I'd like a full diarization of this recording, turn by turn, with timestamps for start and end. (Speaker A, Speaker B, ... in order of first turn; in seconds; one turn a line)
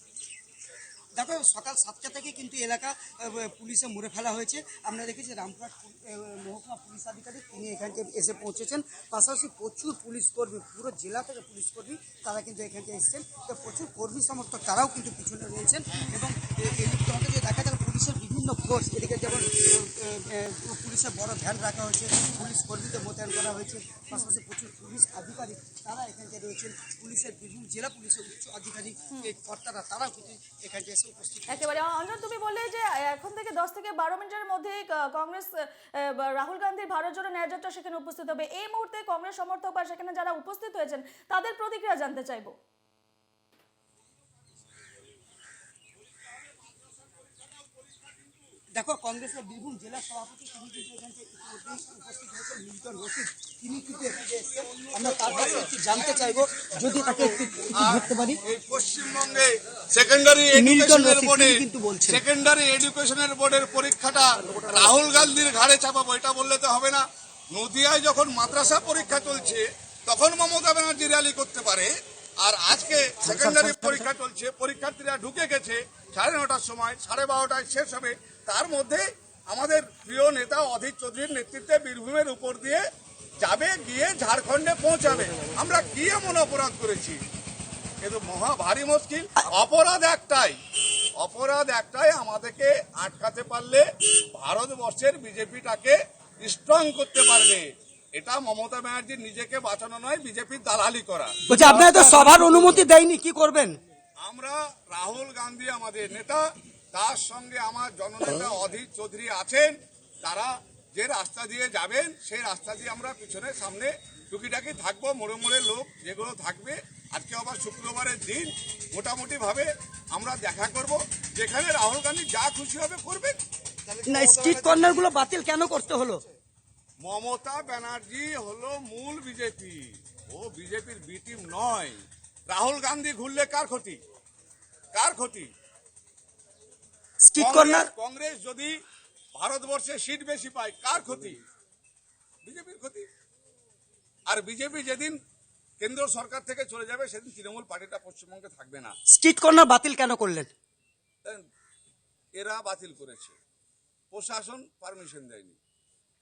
Speaker A: 1.2-31.7
Speaker B: 31.5-42.5
Speaker A: 48.8-58.4
Speaker C: 54.9-82.8
Speaker A: 60.5-62.2
Speaker C: 83.4-87.2
Speaker C: 88.0-90.6
Speaker C: 91.2-102.9
Speaker A: 101.5-103.8
Speaker C: 104.2-123.4
Speaker A: 124.0-126.2
Speaker C: 127.0-132.0
Speaker C: 132.5-134.0
Speaker C: 134.9-135.5
Speaker A: 137.2-137.9
Speaker C: 137.4-138.7
Speaker C: 139.3-141.4
Speaker C: 142.4-143.1
Speaker C: 144.3-145.2
Speaker C: 145.8-148.9
Speaker A: 149.1-150.5
Speaker C: 152.3-153.4
Speaker C: 154.1-155.6